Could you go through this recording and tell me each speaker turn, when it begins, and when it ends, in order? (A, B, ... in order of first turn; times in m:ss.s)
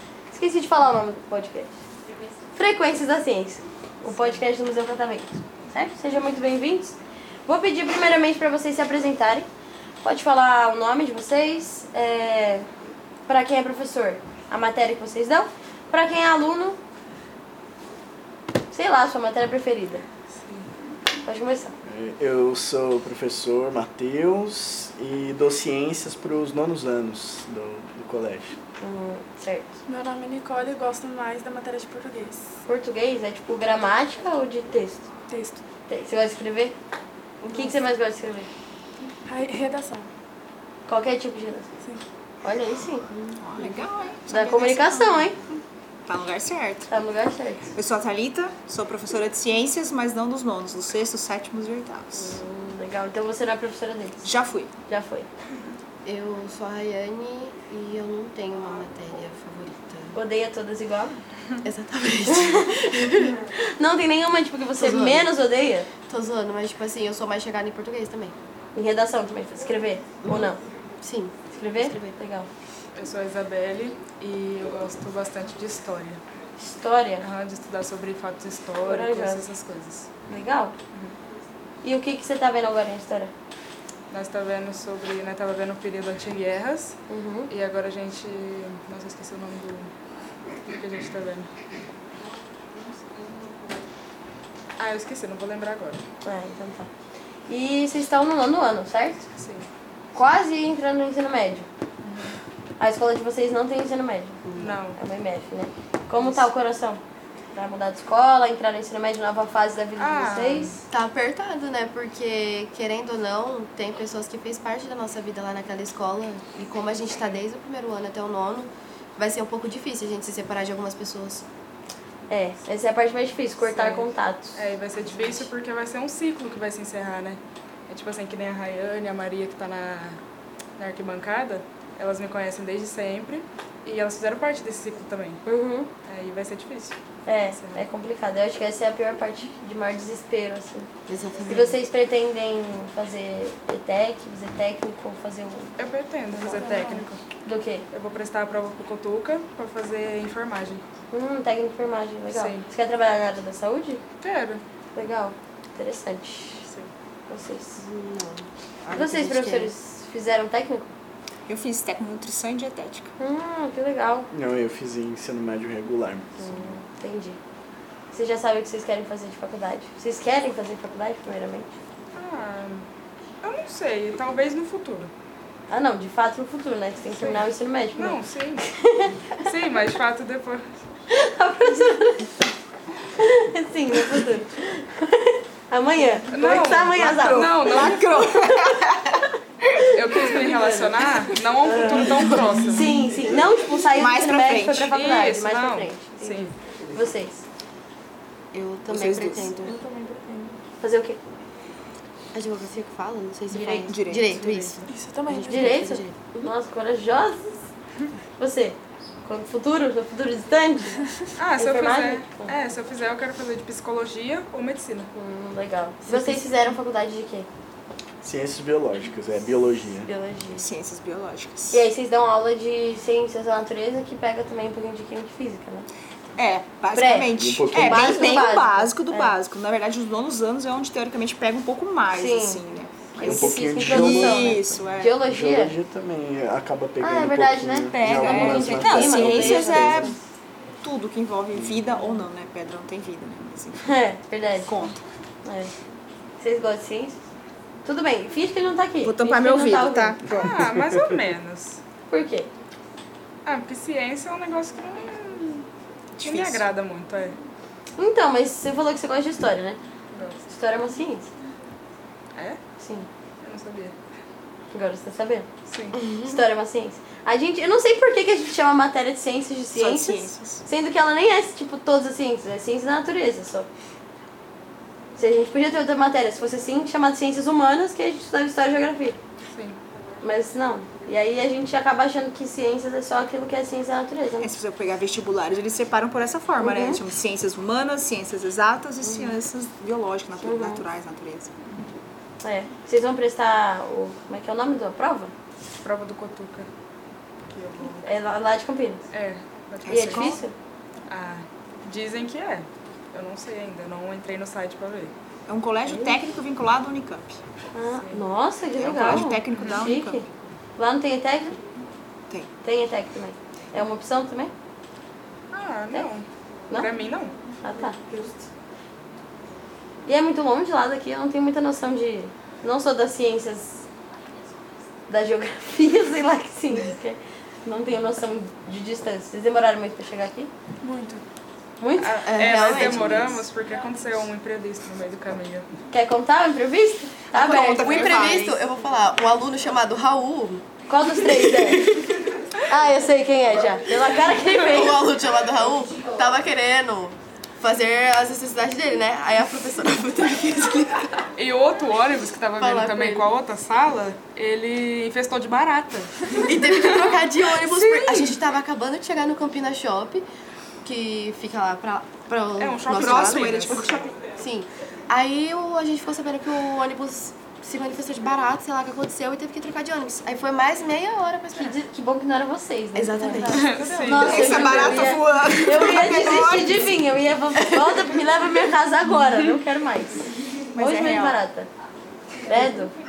0:00.3-0:01.8 A
0:02.5-0:09.5 A
0:04.1-0:04.4 B
0:10.0-0:12.7 A
0:13.3-0:16.8 A
0:18.7-0:20.0 A
0:20.4-0:20.7 B
0:21.2-0:21.8 A
0:21.8-0:28.6 C
0:28.8-0:29.8 A
0:29.9-0:32.4 D
0:32.6-0:35.1 A
0:35.3-0:35.6 D
0:35.9-0:36.8 A
0:37.4-0:37.7 E
0:37.5-0:38.5 A
0:39.3-0:40.1 D
0:40.9-0:41.7 A
0:42.4-0:43.1 A
0:43.1-0:43.8 E
0:43.4-0:46.9 F
0:44.3-0:45.4 A
0:46.9-0:47.7 A
0:47.8-0:52.4 F
0:52.2-0:54.3 A
0:54.2-0:54.7 F
0:54.9-0:55.3 A
0:56.0-1:00.2 E
1:00.1-1:01.2 A
1:01.6-1:03.4 E
1:02.3-1:05.9 A
1:04.8-1:05.3 E
1:06.1-1:08.4 E
1:08.7-1:10.6 A
1:10.2-1:10.5 E
1:11.0-1:12.2 E
1:11.5-1:12.5 A
1:13.0-1:16.2 B
1:16.6-1:17.3 A
1:17.2-1:20.1 B
1:18.8-1:19.5 A
1:20.3-1:20.8 A
1:21.8-1:23.3 A
1:24.1-1:27.0 B
1:27.1-1:27.5 A
1:27.5-1:29.9 B
1:30.7-1:31.5 B
1:34.8-1:36.1 B
1:36.2-1:36.9 A
1:37.5-1:39.3 A
1:39.4-1:39.7 B
1:40.1-1:41.7 A
1:42.0-1:42.4 B
1:42.8-1:44.4 A
1:44.4-1:44.8 E
1:44.6-1:45.0 B
1:45.0-1:47.0 A
1:47.5-1:50.8 A
1:50.0-1:50.8 B
1:50.9-2:01.4 E
2:02.3-2:04.6 A
2:03.7-2:10.2 B
2:05.0-2:05.5 E
2:10.8-2:15.4 B
2:15.5-2:15.9 A
2:16.0-2:17.0 B
2:17.3-2:20.9 A
2:17.5-2:17.8 B
2:21.1-2:21.8 E
2:21.5-2:25.7 A
2:25.8-2:27.2 B
2:26.3-2:27.1 D
2:27.4-2:27.9 A
2:27.9-2:30.8 B
2:31.1-2:34.0 A
2:32.3-2:32.7 B
2:34.2-2:34.6 B
2:35.0-2:36.6 A
2:36.6-2:36.9 B
2:37.3-2:37.8 A
2:37.8-2:39.7 E
2:38.9-2:39.4 F
2:38.9-2:40.9 A
2:41.5-2:43.1 F
2:43.2-2:44.3 A
2:44.3-2:46.8 C
2:46.4-2:47.4 A
2:48.1-2:51.8 A
2:52.2-2:52.9 B
2:53.4-2:55.1 B
2:55.7-2:59.4 A
2:57.1-2:58.7 B
2:59.4-3:00.7 B
3:01.1-3:02.3 A
3:03.2-3:07.9 A
3:06.3-3:08.2 B
3:07.0-3:09.9 F
3:09.9-3:13.0 B
3:10.2-3:11.0 A
3:11.6-3:17.4 A
3:12.1-3:12.3 E
3:14.0-3:14.9 F
3:14.6-3:16.6 B
3:18.5-3:19.8 E
3:18.9-3:19.5 F
3:19.6-3:20.6 D
3:20.8-3:21.2 A
3:22.3-3:26.4 E
3:23.5-3:24.4 F
3:24.9-3:25.8 D
3:25.5-3:27.6 A
3:28.4-3:32.5 A
3:31.4-3:35.1 B
3:35.2-3:37.5 A
3:36.0-3:36.5 E
3:38.2-3:40.1 C
3:40.0-3:40.7 A
3:40.6-3:41.8 F
3:41.7-3:45.9 A
3:46.4-3:55.1 F
3:46.9-3:49.4 A
3:47.4-3:48.2 C
3:52.1-3:52.6 A
3:53.1-3:55.8 A
3:53.2-3:54.6 C
3:55.2-4:00.0 C
3:57.0-4:00.2 A
3:57.9-4:00.2 F
4:00.8-4:04.0 F
4:03.8-4:04.9 A
4:04.6-4:05.0 F
4:05.4-4:05.7 A
4:06.4-4:07.2 A
4:07.8-4:10.2 A
4:09.0-4:10.6 F
4:10.4-4:11.8 B
4:12.1-4:12.5 A
4:13.4-4:15.7 B
4:16.2-4:16.7 F
4:16.2-4:17.4 B
4:18.0-4:19.8 A
4:20.1-4:20.4 B
4:20.5-4:21.3 A
4:22.4-4:22.6 B
4:22.8-4:23.1 A
4:23.4-4:24.0 B
4:24.7-4:25.5 A
4:25.7-4:26.0 B
4:26.0-4:26.4 E
4:26.2-4:33.7 A
4:29.7-4:30.6 F
4:35.2-4:39.2 A
4:39.5-4:39.8 B
4:40.2-4:44.5 A
4:44.4-4:51.5 F
4:46.6-4:47.0 A
4:49.0-4:49.4 A
4:50.4-4:50.9 A
4:52.4-4:55.3 A
4:55.8-4:56.7 B
4:57.5-4:58.1 B
4:58.0-4:59.0 A
4:59.1-5:00.4 B
4:59.8-5:00.4 F
4:59.9-5:00.6 A
5:01.1-5:05.1 B
5:05.5-5:07.4 F
5:05.9-5:06.2 A
5:07.7-5:11.6 A
5:08.0-5:08.2 B
5:08.8-5:10.3 F
5:09.6-5:09.9 B
5:12.6-5:14.5 A
5:15.5-5:17.4 B
5:17.6-5:18.5 A
5:20.1-5:23.8 A
5:25.1-5:30.5 A
5:30.8-5:31.2 D
5:31.8-5:32.2 A
5:32.0-5:35.7 B
5:32.2-5:33.5 E
5:35.9-5:38.4 A
5:37.3-5:40.6 E
5:37.4-5:38.6 F
5:40.9-5:41.9 A
5:41.3-5:41.9 E
5:42.7-5:45.1 A
5:44.4-5:51.3 E
5:51.4-5:58.4 B
5:52.6-5:53.3 E
5:56.4-6:00.3 E
6:00.8-6:03.8 E
6:02.6-6:03.9 B
6:02.9-6:04.2 F
6:04.4-6:11.8 E
6:11.6-6:21.7 A
6:12.9-6:14.0 E
6:13.3-6:14.9 D
6:13.5-6:14.4 B
6:14.1-6:17.0 F
6:17.6-6:18.0 E
6:20.8-6:21.4 F
6:22.5-6:22.9 A